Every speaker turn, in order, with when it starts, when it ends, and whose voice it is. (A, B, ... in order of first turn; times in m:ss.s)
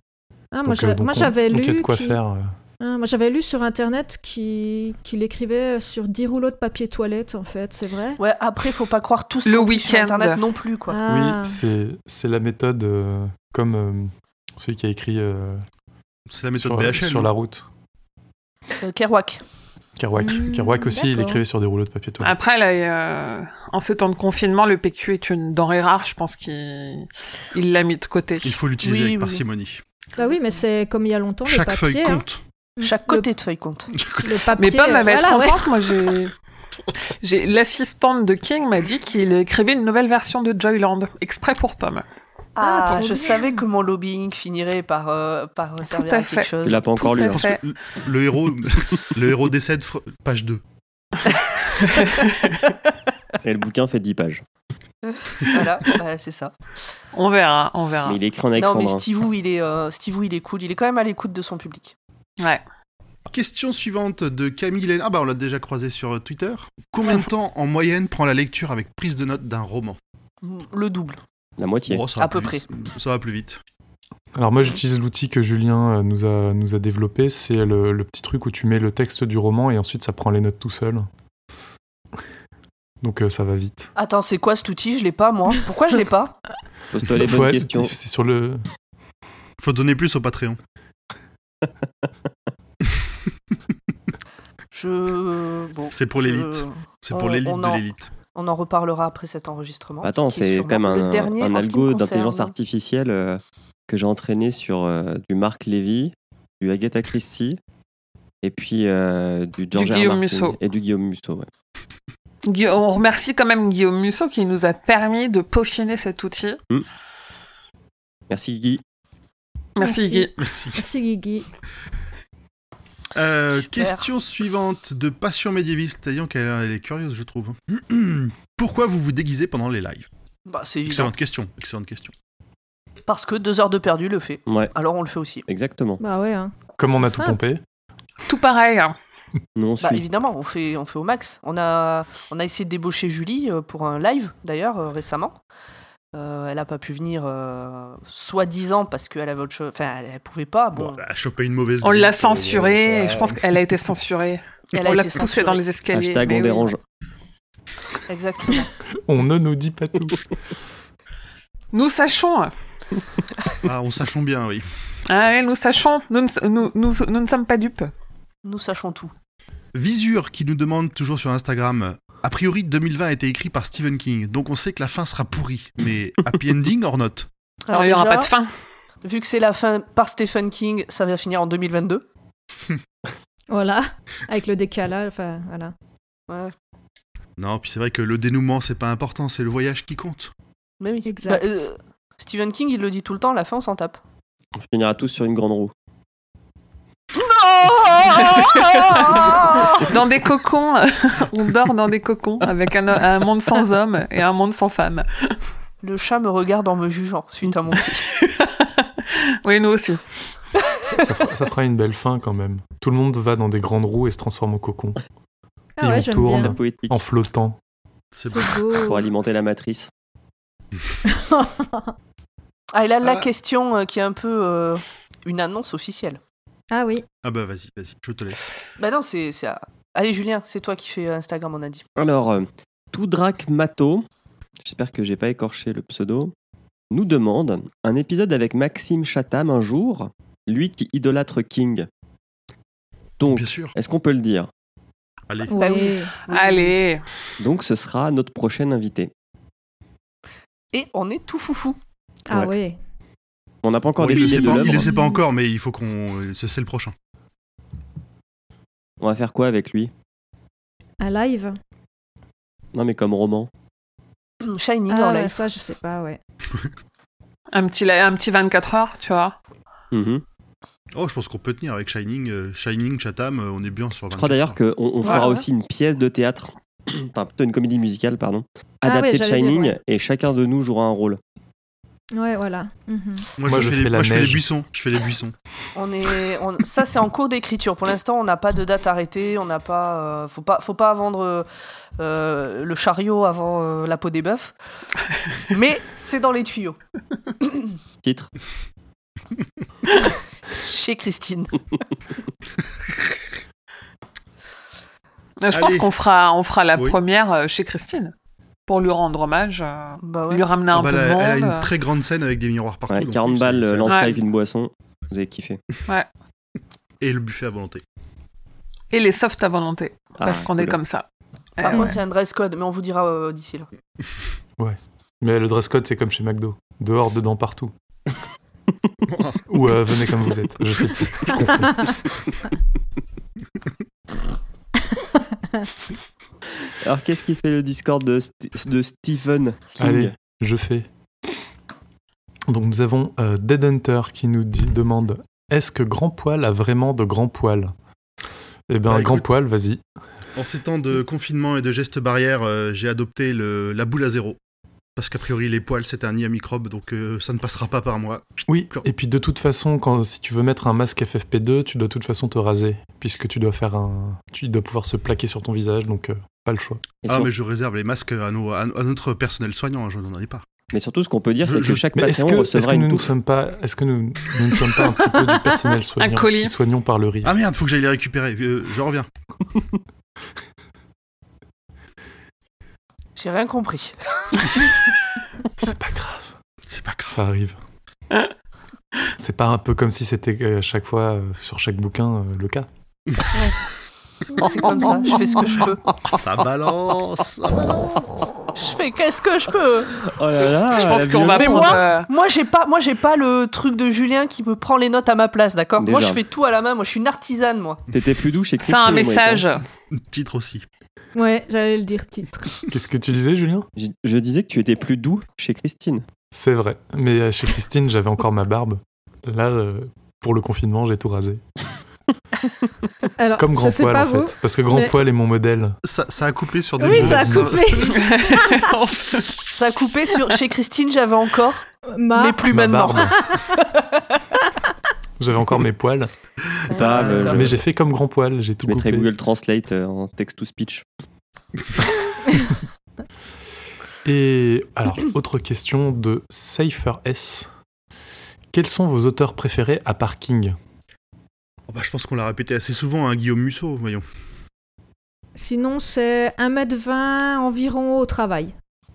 0:00.5-0:02.2 A
0:00.6-0:02.5 B
0:02.8-0:08.2 A
0:08.2-0:11.0 C
0:09.4-0:10.4 D
0:10.9-0:11.6 A
0:11.0-0:15.6 B
0:16.3-0:17.3 E
0:16.6-0:17.6 B
0:18.8-0:19.4 C
0:20.0-0:22.3 B
0:20.2-0:21.4 A
0:22.2-0:28.6 D
0:28.4-0:29.8 E
0:28.8-0:29.4 C
0:30.2-0:32.2 A
0:31.4-0:32.4 E
0:32.8-0:33.3 A
0:32.8-0:33.9 C
0:34.0-0:34.3 E
0:34.2-0:35.6 A
0:34.6-0:36.3 D
0:37.2-0:42.0 D
0:42.6-0:47.3 C
0:42.6-0:43.6 A
0:45.9-0:47.6 D
0:46.6-0:47.4 F
0:47.4-0:50.6 E
0:51.4-0:52.2 C
0:53.4-0:54.4 F
0:55.1-0:56.5 C
0:57.1-0:58.2 D
0:58.0-0:59.0 F
0:58.6-1:01.9 C
1:03.3-1:10.0 E
1:10.4-1:11.2 C
1:11.6-1:12.1 F
1:11.9-1:13.6 E
1:12.2-1:12.6 C
1:14.3-1:21.0 B
1:23.0-1:23.9 B
1:24.0-1:26.4 C
1:26.9-1:27.9 F
1:27.0-1:28.6 B
1:29.6-1:30.6 E
1:34.7-1:37.8 C
1:35.9-1:38.1 E
1:38.3-1:42.5 C
1:40.0-1:47.6 F
1:48.4-1:51.5 F
1:49.7-1:50.6 D
1:52.4-1:56.6 D
1:58.3-1:58.8 F
1:59.8-2:00.3 D
1:59.8-2:01.5 A
2:00.4-2:00.8 E
2:03.1-2:10.1 E
2:03.6-2:04.1 C
2:10.5-2:11.1 C
2:10.8-2:12.1 E
2:13.1-2:15.4 C
2:14.5-2:14.7 F
2:15.5-2:16.0 F
2:16.0-2:17.4 A
2:16.8-2:17.6 B
2:18.2-2:19.0 D
2:19.6-2:20.0 F
2:19.8-2:25.4 C
2:26.1-2:31.0 C
2:30.7-2:33.6 E
2:31.8-2:36.7 D
2:34.7-2:35.6 C
2:35.9-2:36.8 F
2:38.1-2:38.7 C
2:39.0-2:40.2 B
2:41.7-2:42.5 D
2:43.6-2:44.7 E
2:45.1-2:47.9 D
2:48.4-2:49.1 C
2:49.7-2:57.3 E
2:57.7-2:58.3 C
2:57.7-2:58.5 D
2:59.0-3:02.0 C
3:03.5-3:05.7 A
3:07.4-3:10.3 E
3:10.8-3:14.0 C
3:11.0-3:11.6 A
3:14.6-3:15.7 F
3:17.2-3:19.9 C
3:18.5-3:25.4 D
3:25.8-3:28.0 C
3:27.8-3:30.0 D
3:30.9-3:35.0 B
3:35.8-3:36.5 A
3:35.8-3:37.6 B
3:36.5-3:37.0 F
3:38.1-3:38.6 E
3:38.3-3:39.0 A
3:38.7-3:39.9 F
3:41.1-3:41.9 A
3:42.7-3:46.2 C
3:46.7-3:47.0 A
3:47.2-3:48.5 E
3:48.8-3:51.8 C
3:52.0-3:54.0 F
3:54.6-3:56.3 F
3:56.9-4:01.9 F
4:03.2-4:04.5 F
4:03.3-4:03.7 E
4:05.3-4:05.6 E
4:05.5-4:06.1 A
4:05.5-4:06.8 C
4:06.3-4:07.0 D
4:07.4-4:09.1 F
4:10.7-4:11.8 C
4:12.3-4:12.8 A
4:13.6-4:14.9 F
4:14.0-4:16.9 E
4:14.6-4:15.2 A
4:19.0-4:19.9 F
4:21.0-4:21.6 A
4:22.7-4:23.5 F
4:24.4-4:25.4 C
4:24.9-4:26.2 A
4:27.5-4:29.3 D
4:29.9-4:30.2 F
4:30.9-4:34.6 E
4:34.2-4:41.2 F
4:35.0-4:35.4 A
4:35.0-4:35.3 C
4:38.8-4:39.8 A
4:42.2-4:43.3 A
4:43.4-4:45.3 E
4:43.4-4:44.4 B
4:45.7-4:51.5 C
4:52.0-4:54.5 C
4:55.4-4:56.8 C
4:57.4-4:57.7 C
4:58.0-4:58.3 F
5:00.6-5:01.6 C
5:05.4-5:08.1 D
5:05.5-5:05.9 E
5:08.7-5:11.7 D
5:10.0-5:10.4 C
5:10.7-5:14.0 E
5:12.9-5:15.6 F
5:13.9-5:14.2 D
5:17.0-5:17.8 E
5:18.9-5:21.0 D
5:20.2-5:20.8 F
5:21.6-5:22.0 D
5:21.6-5:23.7 C
5:24.6-5:27.7 B
5:29.1-5:29.4 E
5:29.4-5:32.0 B
5:36.8-5:40.1 F
5:39.8-5:40.9 B
5:42.5-5:47.7 B
5:48.7-5:49.8 B
5:48.9-5:49.3 E
5:50.4-5:54.4 E
5:55.0-5:58.8 E
5:58.5-6:06.9 B
6:07.0-6:07.3 F
6:07.1-6:10.5 E
6:10.7-6:13.1 F
6:11.4-6:11.8 E
6:12.0-6:17.3 B
6:16.0-6:16.5 D
6:17.2-6:19.1 E
6:23.2-6:24.8 C
6:25.6-6:26.3 B
6:26.7-6:27.2 E
6:27.1-6:27.6 B
6:29.2-6:32.7 B
6:34.3-6:35.9 C
6:36.2-6:37.8 E
6:38.5-6:40.0 C
6:40.0-6:41.8 F
6:40.7-6:42.1 D
6:41.4-6:47.8 C
6:45.8-6:46.2 F
6:47.9-6:49.5 F
6:48.6-6:49.6 D
6:49.9-6:50.6 E
6:51.2-6:52.5 A
6:52.7-6:53.7 B
6:53.8-6:56.0 F
6:56.3-7:01.4 B
7:03.2-7:05.0 A
7:03.4-7:05.8 B
7:05.8-7:07.8 E
7:06.8-7:08.7 A
7:06.8-7:07.9 B
7:07.7-7:08.4 C
7:07.9-7:09.4 D
7:09.5-7:14.2 C
7:11.9-7:12.5 A
7:12.5-7:13.3 B
7:13.0-7:13.5 A
7:15.2-7:16.1 B
7:16.7-7:17.5 C
7:16.7-7:17.6 F
7:17.2-7:19.1 B
7:18.6-7:20.8 F
7:24.0-7:27.5 B
7:28.5-7:30.6 B
7:31.7-7:34.0 E
7:35.4-7:38.5 A